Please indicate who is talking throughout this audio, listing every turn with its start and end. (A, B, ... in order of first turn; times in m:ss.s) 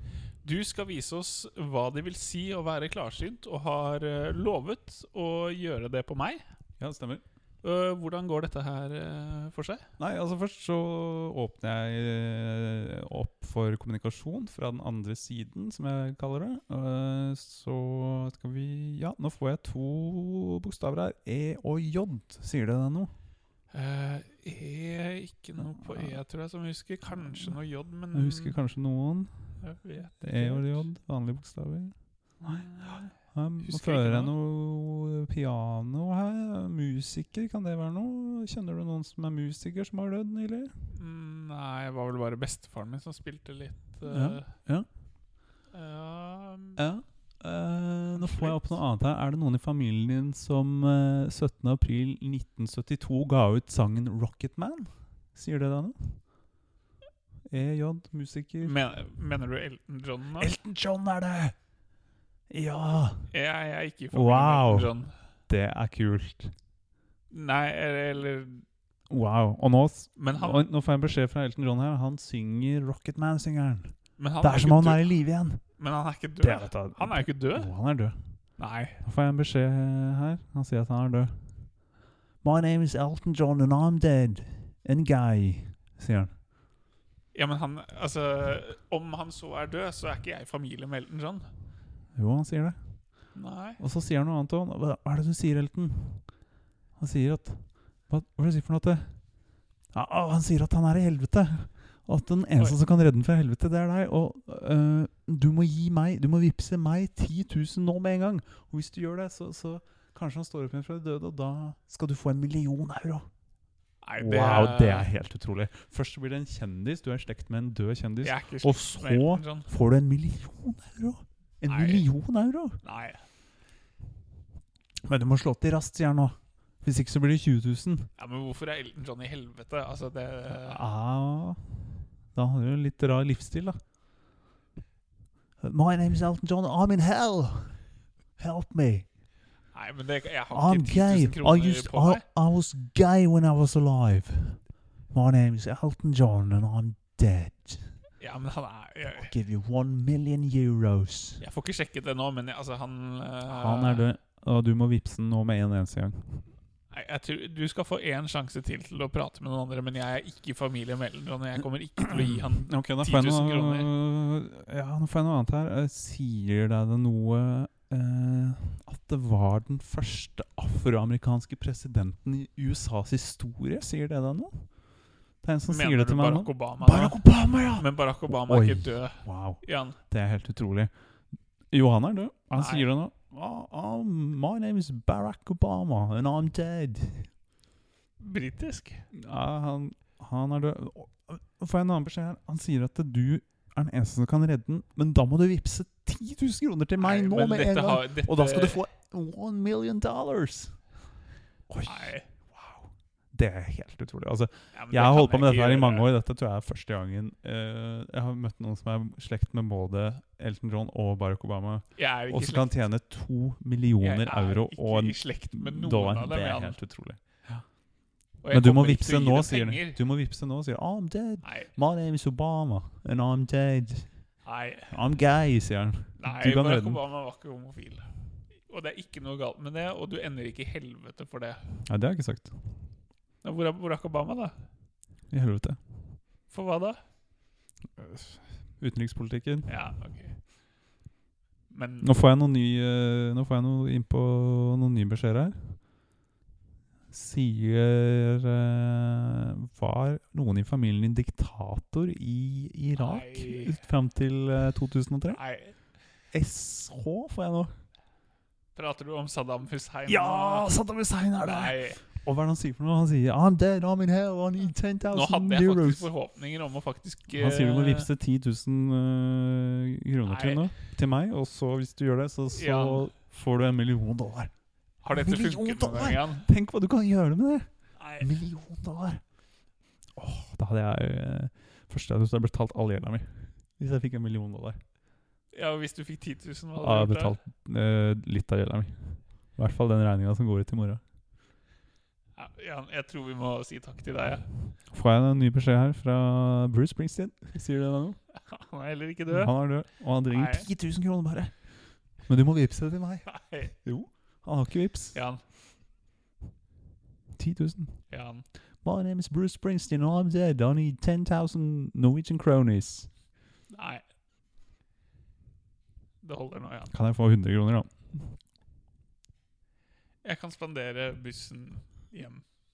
0:00.4-0:06.4 A
0:06.8-0:07.2 B
0:07.6-0:09.9 A
0:10.0-0:23.1 B
0:23.7-0:28.6 A
0:25.6-0:26.2 B
0:27.1-0:27.6 B
0:28.1-0:29.3 B
0:29.6-0:30.9 A
0:30.2-0:40.9 B
0:32.4-0:34.3 A
0:41.0-0:44.6 A
0:44.1-0:44.9 B
0:45.7-0:46.8 A
0:46.8-0:56.3 B
0:48.1-0:48.8 A
0:57.5-0:58.8 B
0:58.6-1:00.6 A
1:00.4-1:01.6 B
1:02.5-1:03.3 B
1:03.3-1:05.1 A
1:04.1-1:06.5 B
1:07.3-1:08.7 A
1:09.1-1:15.6 B
1:10.2-1:10.7 A
1:14.2-1:15.2 A
1:15.8-1:17.7 A
1:16.4-1:18.2 B
1:18.6-1:19.0 A
1:19.0-1:21.3 B
1:22.4-1:26.3 B
1:27.3-1:31.5 A
1:32.2-1:36.4 B
1:33.3-1:33.8 A
1:37.0-1:39.4 B
1:39.9-1:53.3 B
1:54.0-1:55.1 A
1:54.2-2:02.8 B
1:58.2-1:59.7 A
2:01.7-2:02.1 A
2:02.8-2:03.2 A
2:05.0-2:08.1 B
2:08.2-2:10.8 A
2:10.5-2:11.8 B
2:12.3-2:13.8 B
2:15.6-2:17.8 B
2:18.4-2:19.1 B
2:19.7-2:22.2 A
2:20.5-2:27.9 B
2:28.2-2:29.3 A
2:29.2-2:31.4 B
2:31.4-2:34.1 A
2:33.5-2:36.5 B
2:36.9-2:43.9 A
2:42.2-2:54.8 B
2:55.4-3:00.9 B
2:55.7-3:00.0 A
3:01.7-3:07.3 B
3:02.5-3:02.9 A
3:08.2-3:09.1 A
3:09.1-3:20.9 B
3:17.0-3:18.8 A
3:21.7-3:37.6 B
3:21.8-3:22.3 A
3:24.7-3:26.1 A
3:32.0-3:32.9 A
3:34.0-3:36.8 A
3:38.4-3:40.0 A
3:38.5-3:44.2 B
3:41.4-3:41.7 A
3:44.4-3:45.0 A
3:44.9-3:47.0 B
3:46.2-3:48.1 A
3:48.6-3:51.8 A
3:51.9-3:52.7 B
3:53.4-3:54.6 A
3:55.3-3:55.8 B
3:56.5-3:57.0 A
3:58.0-3:59.8 B
3:59.7-4:00.5 A
4:01.7-4:02.2 A
4:02.0-4:05.9 B
4:07.1-4:15.4 B
4:13.0-4:13.8 A
4:15.3-4:15.8 A
4:16.3-4:17.7 B
4:18.8-4:20.8 A
4:20.1-4:26.1 B
4:21.4-4:22.0 A
4:25.1-4:28.1 A
4:27.3-4:34.5 B
4:30.2-4:30.7 A
4:32.5-4:33.1 A
4:35.0-4:36.5 A
4:35.1-4:39.2 B
4:38.0-4:38.3 A
4:40.2-4:44.8 B
4:45.5-4:47.4 A
4:46.8-4:51.0 B
4:52.4-4:54.5 A
4:54.9-4:58.2 B
4:58.4-5:00.7 A
4:59.3-5:05.2 B
5:03.3-5:03.8 A
5:05.1-5:05.4 A
5:07.4-5:08.2 B
5:08.1-5:08.5 A
5:08.8-5:13.1 B
5:13.7-5:14.0 A
5:16.2-5:16.9 A
5:16.9-5:18.4 B
5:20.2-5:22.4 A